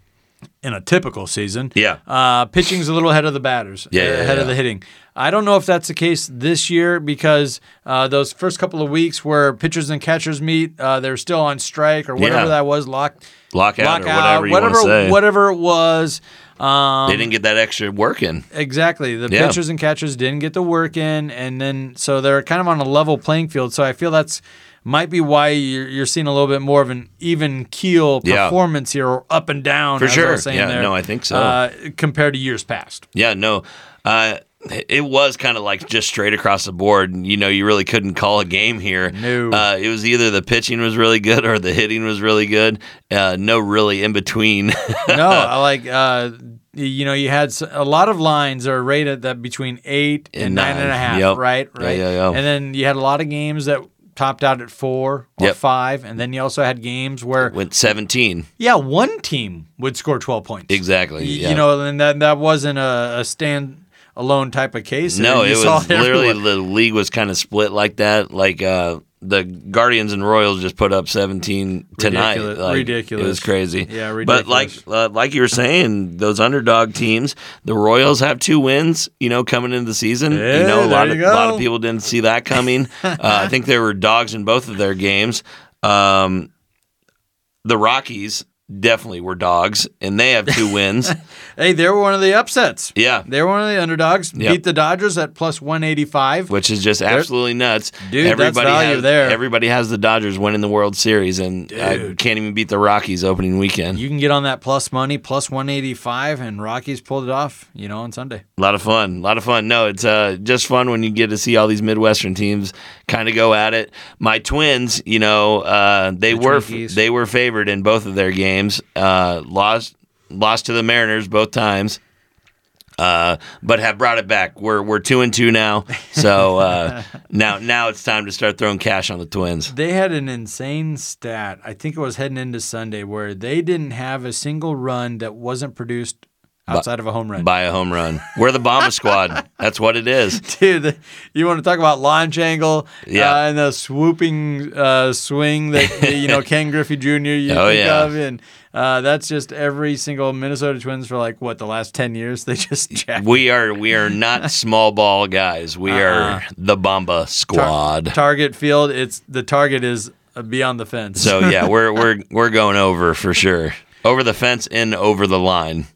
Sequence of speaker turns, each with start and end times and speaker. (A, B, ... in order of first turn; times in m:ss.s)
0:00.6-0:13.2 A
0:01.7-0:02.0 B
0:03.9-0:04.5 B
0:12.2-0:12.5 B
0:13.5-0:15.2 B
0:13.8-0:17.3 A
0:17.1-0:18.4 B
0:18.5-0:33.0 A
0:19.3-0:19.6 B
0:28.2-0:28.5 B
0:30.0-0:31.6 B
0:33.1-0:45.5 B
0:39.1-0:39.6 A
0:45.1-0:57.5 A
0:50.4-0:52.4 B
0:57.4-0:58.4 B
0:58.6-1:06.4 A
1:00.7-1:01.6 B
1:05.1-1:26.5 B
1:12.0-1:14.8 A
1:20.3-1:21.6 A
1:27.6-1:31.1 B
1:31.6-1:36.5 A
1:33.0-1:33.2 B
1:36.5-1:44.0 B
1:38.0-1:39.4 A
1:41.7-1:42.2 A
1:43.9-1:48.4 A
1:48.6-2:02.0 B
1:56.3-1:57.0 A
2:03.0-2:09.7 B
2:09.7-2:17.5 A
2:17.4-2:20.4 B
2:20.4-2:33.3 A
2:23.1-2:23.4 B
2:25.8-2:26.4 B
2:27.5-2:28.1 B
2:33.2-2:38.2 B
2:35.9-2:36.4 A
2:37.5-2:41.6 A
2:41.2-2:45.9 B